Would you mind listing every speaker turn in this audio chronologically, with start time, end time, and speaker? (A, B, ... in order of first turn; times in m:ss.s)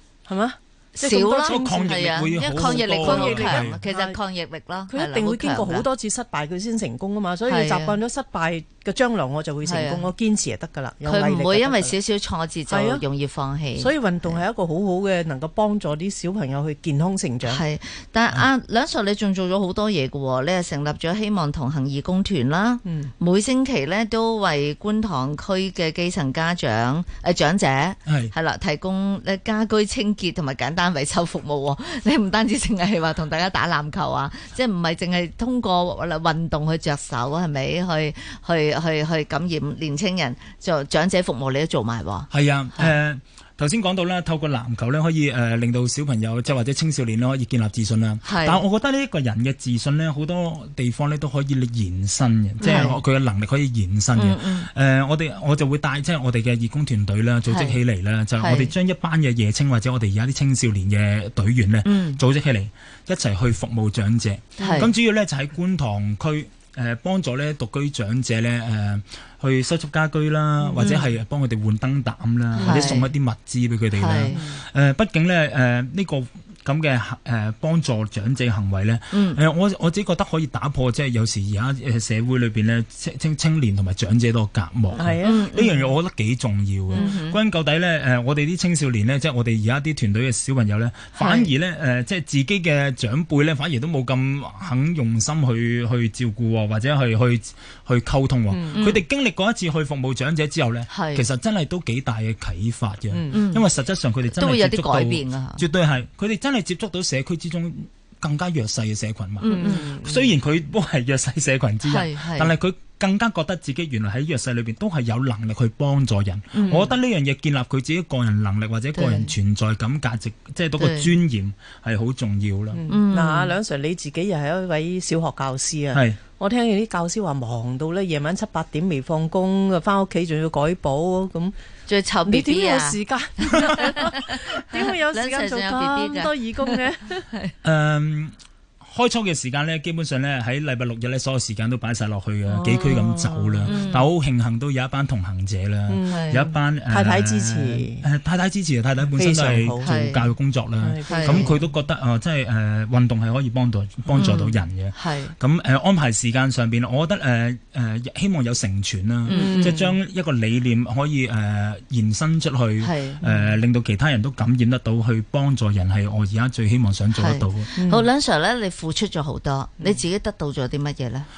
0:00.3-0:04.2 A
0:01.0-0:05.9 B
0:01.5-0:03.8 C
0:04.9-0:12.0 A
0:07.4-0:08.0 B
0:09.6-0:10.1 B
0:11.0-0:14.4 B
0:12.7-0:13.1 A
0:13.8-0:17.6 A
0:17.4-0:42.9 B
0:22.8-0:23.1 A
0:28.1-0:28.3 C
0:42.3-2:02.8 C
0:48.2-0:48.7 B
0:52.6-0:53.0 B
0:54.1-0:54.7 B
0:57.5-0:57.8 B
0:58.4-0:58.7 B
1:01.8-1:02.2 B
1:04.6-1:04.9 B
1:04.6-1:04.9 A
1:10.6-1:10.9 A
1:10.8-1:11.1 B
1:12.6-1:13.1 B
1:12.6-1:13.0 A
1:13.9-1:14.4 B
1:14.3-1:14.6 A
1:19.1-1:19.4 B
1:24.9-1:25.9 A
1:25.2-1:25.8 B
1:26.9-1:27.4 B
1:26.9-1:27.2 A
1:31.2-1:31.5 A
1:38.5-1:38.8 A
1:38.7-1:39.1 B
1:40.9-1:41.3 B
1:43.1-1:43.4 A
1:43.3-1:43.7 B
1:44.3-1:45.7 B
1:49.4-1:50.0 B
1:49.5-1:50.4 A
1:51.8-1:52.6 B
1:56.6-1:57.0 A
1:58.9-1:59.4 B
2:00.8-2:01.1 B
2:02.7-2:11.5 A
2:02.9-2:03.6 B
2:05.9-2:06.2 C
2:11.9-2:17.5 B
2:12.3-2:17.3 A
2:17.6-2:47.7 C
2:22.5-2:23.7 A
2:23.7-2:24.1 B
2:25.9-2:28.0 A
2:26.1-2:26.4 B
2:29.0-2:29.9 A
2:29.8-2:30.4 B
2:30.8-2:31.7 A
2:31.1-2:31.6 B
2:34.1-2:35.3 B
2:39.3-2:39.8 B
2:39.3-2:40.0 A
2:42.8-2:43.2 B
2:47.1-2:51.3 B
2:47.8-2:48.1 A